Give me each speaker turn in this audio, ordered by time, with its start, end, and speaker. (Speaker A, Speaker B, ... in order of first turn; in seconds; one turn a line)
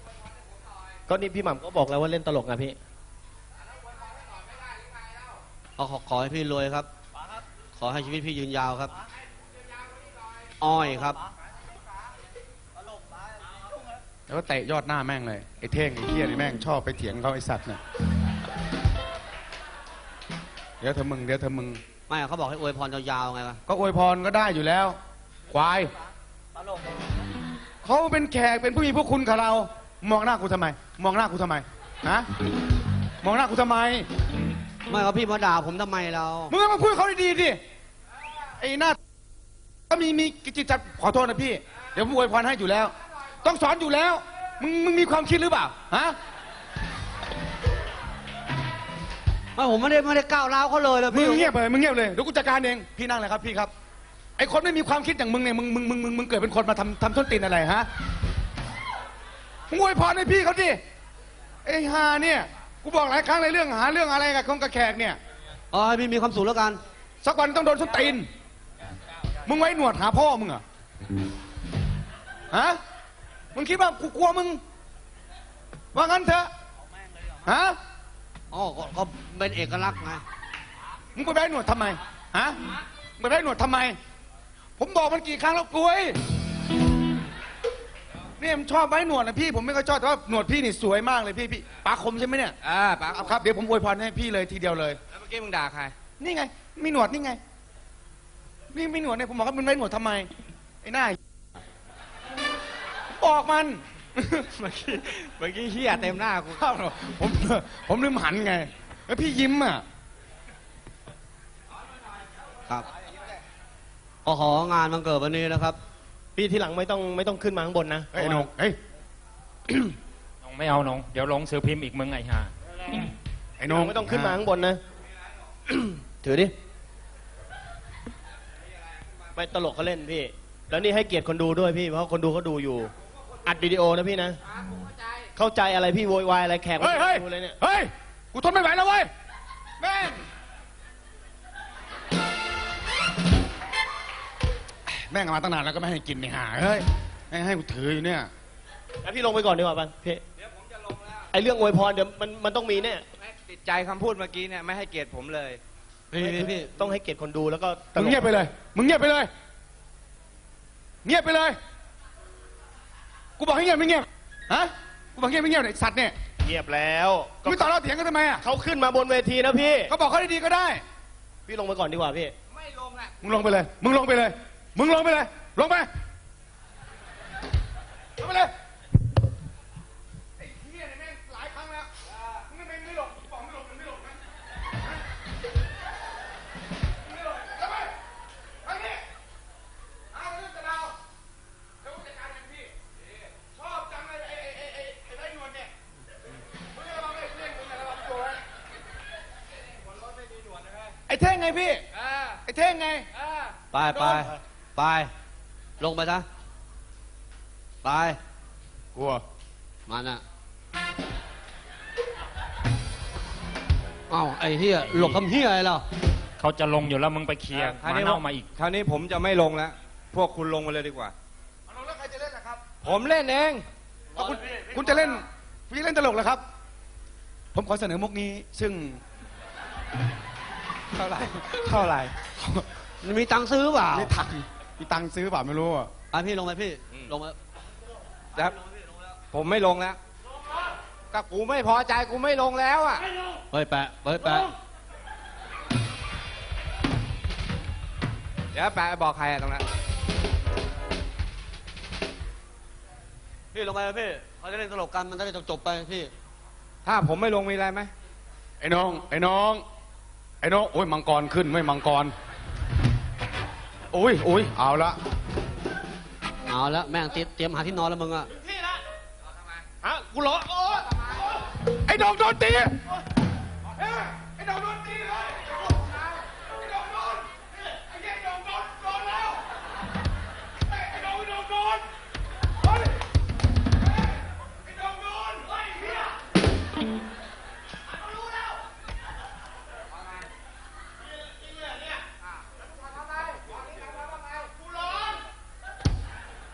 Speaker A: 1.1-2.8
Speaker B: 5.8-6.9
Speaker B: 7.8-8.9
Speaker B: 10.6-11.2
Speaker C: 14.3-17.8
Speaker C: 20.8-21.8
Speaker B: 22.1-23.6
Speaker C: 23.7-25.0
Speaker C: 25.5-25.9
Speaker C: 27.8-32.3
Speaker C: 33.2-34.0
Speaker B: 34.9-36.5
Speaker C: 36.5-37.6
Speaker C: 38.6-39.0
Speaker C: 39.9-46.1
Speaker B: 49.5-51.5
Speaker C: 51.1-53.7
Speaker C: 54.4-57.9
Speaker C: 59.7-60.8
Speaker C: 61.6-65.2
Speaker B: 65.7-66.8
Speaker C: 67.2-68.3
Speaker C: 69.4-70.6
Speaker C: 72.5-72.8
Speaker C: 73.5-74.6
Speaker C: 75.9-76.5
Speaker C: 77.4-77.8
Speaker B: 78.5-80.2
Speaker C: 81.1-82.6
Speaker C: 83.2-84.0
Speaker C: 84.8-86.2
Speaker C: 88.4-92.5
Speaker D: 92.6-93.3
Speaker C: 93.1-95.0
Speaker D: 95.1-95.9
Speaker C: 96.2-97.4
Speaker C: 98.7-100.3
Speaker C: 100.8-101.2
Speaker C: 103.2-104.5
Speaker D: 104.5-106.6
Speaker C: 106.5-109.8
Speaker B: 114.2-115.8
Speaker A: 116.3-118.5
Speaker C: 118.1-118.8
Speaker E: 120.4-122.5
Speaker C: 123.6-124.4
Speaker A: 123.7-124.8
Speaker A: 125.7-126.5
Speaker A: 129.3-132.9
Speaker A: 133.4-134.4
Speaker A: 135.3-137.6
Speaker C: 136.8-139.1
Speaker C: 139.8-140.2
Speaker C: 144.9-148.3
Speaker A: 149.0-150.2
Speaker D: 150.5-151.2
Speaker A: 151.3-153.0
Speaker D: 153.2-155.6
Speaker B: 156.1-156.7
Speaker A: 156.2-158.4
Speaker C: 157.9-159.3
Speaker C: 161.0-161.6
Speaker C: 163.4-166.1
Speaker A: 166.4-167.6
Speaker C: 167.4-168.4
Speaker A: 168.4-169.9
Speaker C: 169.9-170.8
Speaker A: 171.4-172.3
Speaker D: 172.5-173.1
Speaker C: 173.2-175.9
Speaker C: 178.2-178.5
Speaker C: 180.4-181.9
Speaker C: 182.5-184.2
Speaker C: 187.1-187.9
Speaker C: 188.7-189.0
Speaker C: 190.1-191.0
Speaker C: 191.8-192.7
Speaker C: 193.5-195.7
Speaker C: 196.8-198.4
Speaker D: 200.1-200.9
Speaker C: 201.1-201.8
Speaker D: 202.0-202.4
Speaker C: 202.4-203.1
Speaker D: 203.2-203.5
Speaker B: 203.7-205.1
Speaker C: 203.8-204.3
Speaker B: 205.8-206.3
Speaker B: 207.8-208.2
Speaker C: 208.9-209.2
Speaker B: 209.9-210.2
Speaker B: 214.1-215.8
Speaker E: 216.4-218.5
Speaker D: 217.5-221.1
Speaker C: 221.7-222.6
Speaker D: 222.8-223.6
Speaker C: 224.1-226.4
Speaker C: 227.5-229.0
Speaker D: 230.9-232.1
Speaker C: 232.4-232.6
Speaker B: 233.0-234.1
Speaker C: 233.9-235.9
Speaker B: 236.1-237.3
Speaker D: 239.3-240.0
Speaker D: 241.1-243.1
Speaker B: 243.5-244.5
Speaker D: 248.5-249.6
Speaker B: 253.5-256.1
Speaker D: 256.8-257.9
Speaker C: 258.6-259.6
Speaker C: 260.4-262.1
Speaker C: 263.9-265.0
Speaker B: 266.5-268.3
Speaker A: 269.8-270.9
Speaker C: 271.9-272.7
Speaker C: 273.8-275.4
Speaker C: 276.6-277.2
Speaker C: 277.9-279.4
Speaker C: 280.7-281.9
Speaker C: 284.7-285.4
Speaker D: 293.1-293.4